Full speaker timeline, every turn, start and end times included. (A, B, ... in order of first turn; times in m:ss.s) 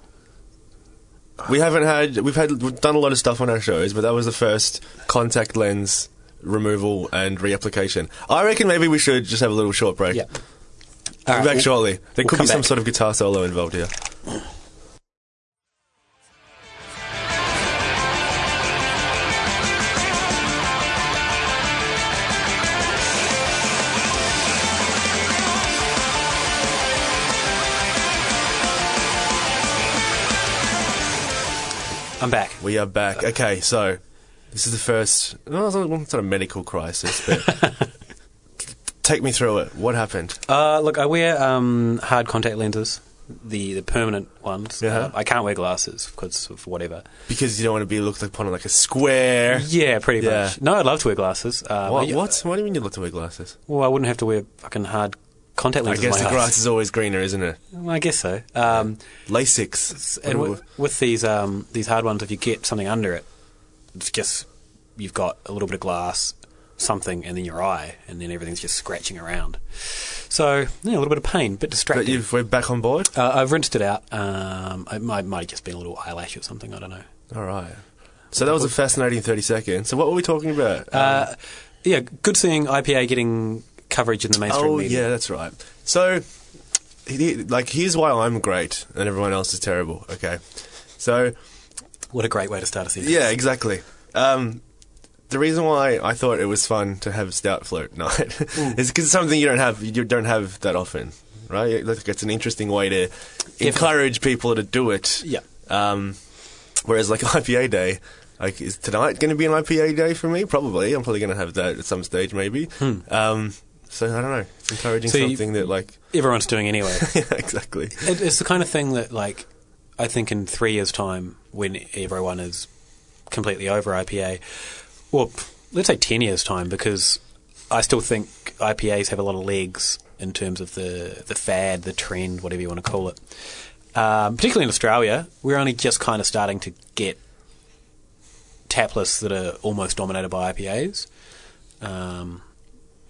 0:01.4-0:10.3 A
0:11.3-0:12.7 B
0:11.3-0:13.9 A
0:32.2-0:32.6 B
0:32.6-0:34.0 A
0:34.5-0:37.5 A
0:37.5-0:37.8 B
0:39.0-0:40.4 A
0:40.5-0:47.0 B
0:44.8-0:45.1 A
0:47.3-0:49.7 A
0:49.5-0:52.3 B
0:50.2-0:50.6 A
0:51.8-0:53.6 A
0:53.7-0:56.6 B
0:55.9-0:57.6 A
0:57.7-0:59.0 B
0:58.7-1:00.6 A
0:59.9-1:03.3 B
1:03.9-1:12.2 B
1:11.9-1:13.1 A
1:13.1-1:17.0 B
1:17.3-1:21.3 A
1:20.9-1:25.0 B
1:24.5-1:26.2 A
1:27.0-1:31.4 A
1:32.1-1:33.3 B
1:33.0-1:34.6 A
1:35.3-1:46.2 A
1:43.6-1:43.9 B
1:46.8-1:56.0 A
1:55.1-1:57.1 B
1:56.9-1:58.1 A
1:58.0-1:59.5 B
2:00.0-2:02.7 B
2:03.3-2:04.4 B
2:05.1-2:13.2 B
2:13.9-2:17.2 B
2:18.7-2:21.1 B
2:21.8-2:22.4 B